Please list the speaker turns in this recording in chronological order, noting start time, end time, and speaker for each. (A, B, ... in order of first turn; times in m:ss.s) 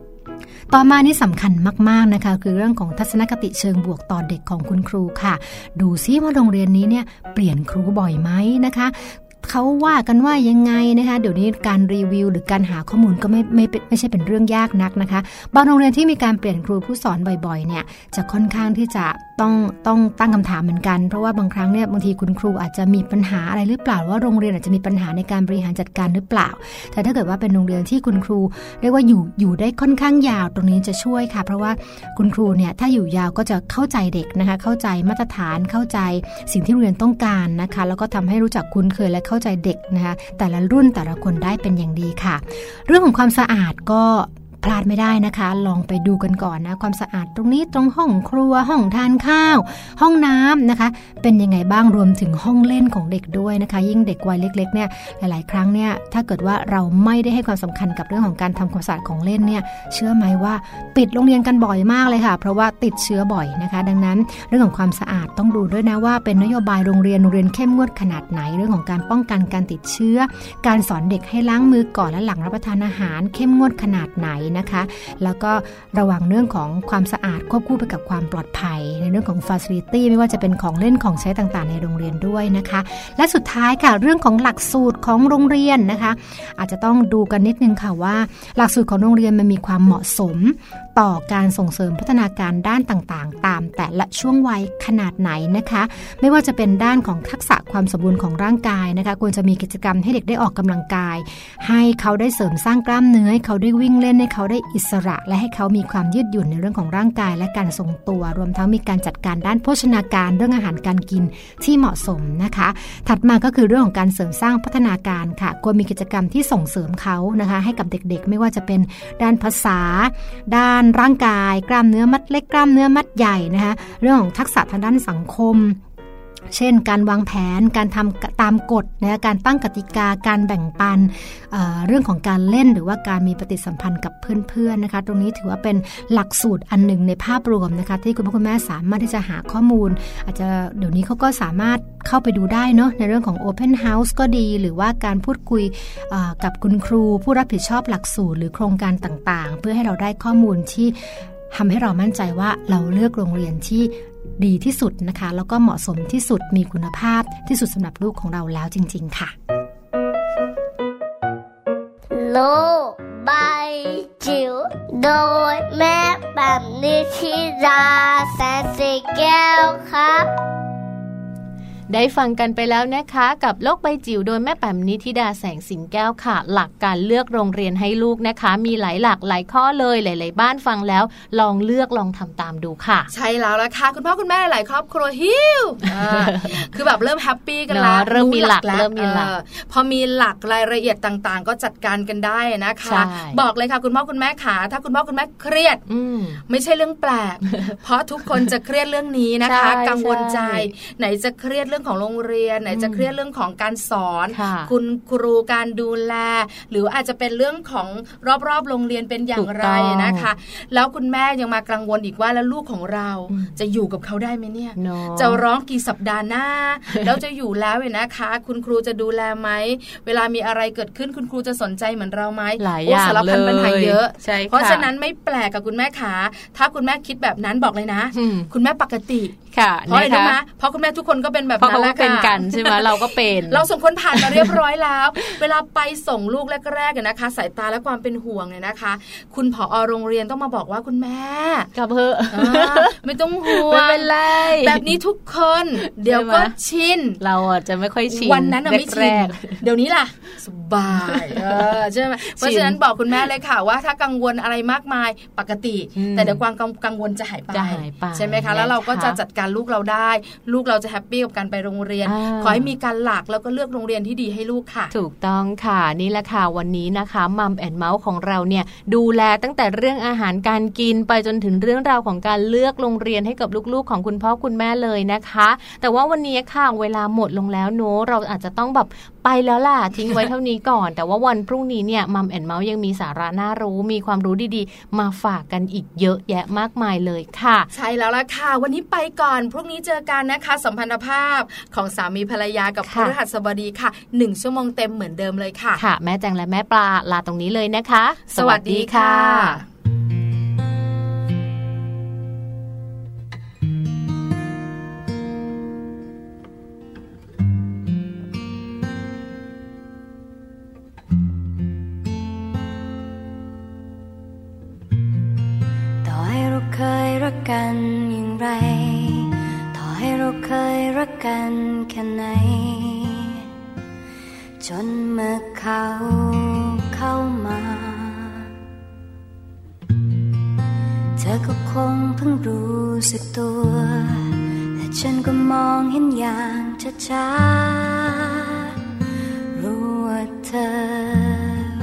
0:00.7-2:05.8 A
2:06.5-2:31.0 A
2:31.5-2:39.3 A
2:42.1-2:50.3 B
2:51.9-3:03.1 C
3:03.1-3:15.8 D
3:06.0-3:06.6 C
3:07.7-3:09.3 C
3:12.8-3:13.4 C
3:15.9-3:16.4 C
3:16.5-4:01.7 D
3:19.4-3:20.7 C
3:22.7-3:23.1 C
3:24.3-3:24.7 C
3:29.3-3:30.3 C
3:33.3-3:33.5 C
3:34.8-3:35.4 C
3:42.6-3:44.9 C
3:48.1-3:48.5 C
3:49.5-3:50.4 C
3:51.6-3:54.6 C
4:01.7-4:05.0 C
4:02.3-4:07.2 D
4:05.8-4:06.5 C
4:07.2-4:09.6 C
4:08.1-4:24.9 D
4:10.9-4:12.8 C
4:16.0-4:16.4 C
4:17.5-4:19.2 C
4:22.0-4:22.7 C
4:24.9-4:47.7 C
4:47.7-4:55.8 D
4:52.8-4:53.1 C
4:55.8-4:59.6 C
4:58.3-4:59.6 D
5:16.0-5:19.2 E
5:19.7-5:23.2 E
5:24.6-5:28.2 E
5:31.2-5:34.0 E
5:34.8-5:37.8 E
5:39.6-5:41.3 E